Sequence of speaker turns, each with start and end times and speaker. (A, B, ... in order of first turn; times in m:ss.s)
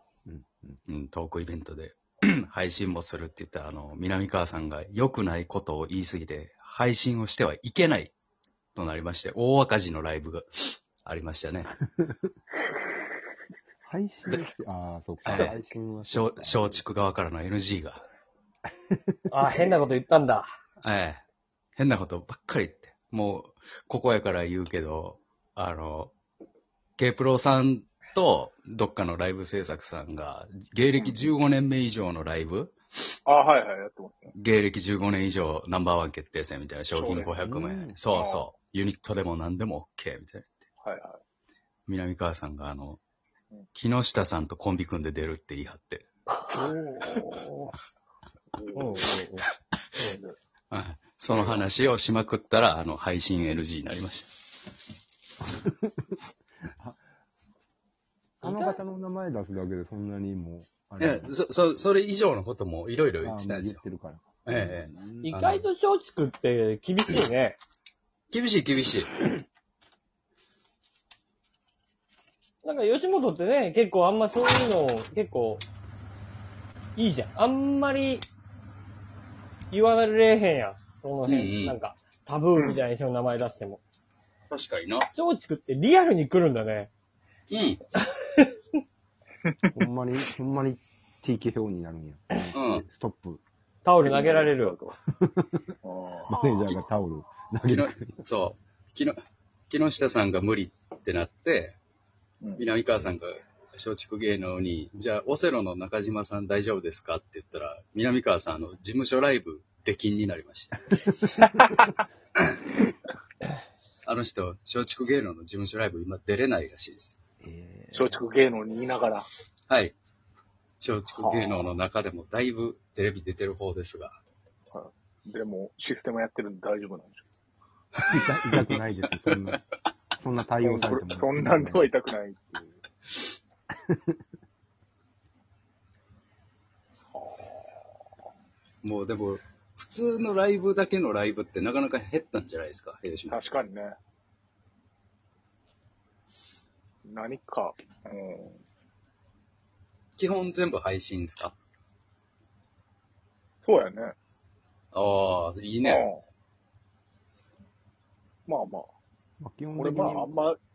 0:00.3-0:00.8 A
0:00.9-0:08.1 B
0:08.8-0:11.8 B
0:13.8-0:16.8 A
0:15.2-0:18.0 B
0:18.7-0:19.7 A
0:19.3-0:20.5 C
0:20.8-0:21.2 B
0:21.8-0:26.1 B
0:27.0-0:32.7 B
0:31.0-0:31.3 D
0:33.3-0:34.3 D
0:34.3-0:40.6 B
0:36.9-0:37.4 D
0:37.4-0:38.0 A
0:38.1-0:38.5 D
0:40.8-0:41.2 D
0:41.9-0:43.0 B
0:43.7-0:46.1 B
0:46.5-0:47.6 D
0:48.5-0:49.1 D
0:48.8-0:49.5 C
0:50.0-0:50.4 D
0:50.7-0:54.4 B
0:51.3-0:51.7 D
0:55.6-0:55.9 A
0:56.7-0:57.0 A
0:58.4-0:58.8 C
0:58.4-1:01.4 A
1:01.0-1:03.8 B
1:03.2-1:05.3 A
1:04.4-1:05.7 B
1:05.2-1:07.6 C
1:08.3-1:09.2 B
1:12.6-1:15.6 C
1:17.0-1:18.2 C
1:19.7-1:23.8 C
1:21.3-1:21.8 B
1:22.6-1:22.9 D
1:24.5-1:25.1 B
1:25.1-1:26.9 C
1:27.5-1:27.8 B
1:28.0-1:28.6 C
1:29.7-1:33.4 A
1:32.5-1:32.8 B
1:33.8-1:34.8 C
1:34.0-1:35.0 D
1:35.2-1:35.7 A
1:35.8-1:36.3 D
1:36.3-1:38.0 A
1:36.4-1:36.8 B
1:37.6-1:39.2 B
1:39.7-1:41.8 B
1:42.4-1:42.7 D
1:42.6-1:51.0 B
1:54.0-1:57.2 B
1:57.4-1:58.2 A
1:57.9-1:59.3 D
1:59.7-2:00.0 B
2:00.8-2:04.2 B
2:01.1-2:01.7 D
2:04.7-2:07.3 D
2:08.0-2:08.8 B
2:08.1-2:09.6 A
2:09.3-2:09.6 B
2:10.2-2:12.0 A
2:10.6-2:12.6 D
2:13.9-2:14.2 A
2:17.0-2:17.8 D
2:18.8-2:23.4 B
2:23.3-2:24.0 D
2:27.1-2:28.6 D
2:30.2-2:31.6 B
2:33.6-2:34.2 D
2:34.9-2:36.1 B
2:35.8-2:36.2 D
2:38.5-2:38.9 D
2:39.4-2:40.3 A
2:39.8-2:40.6 D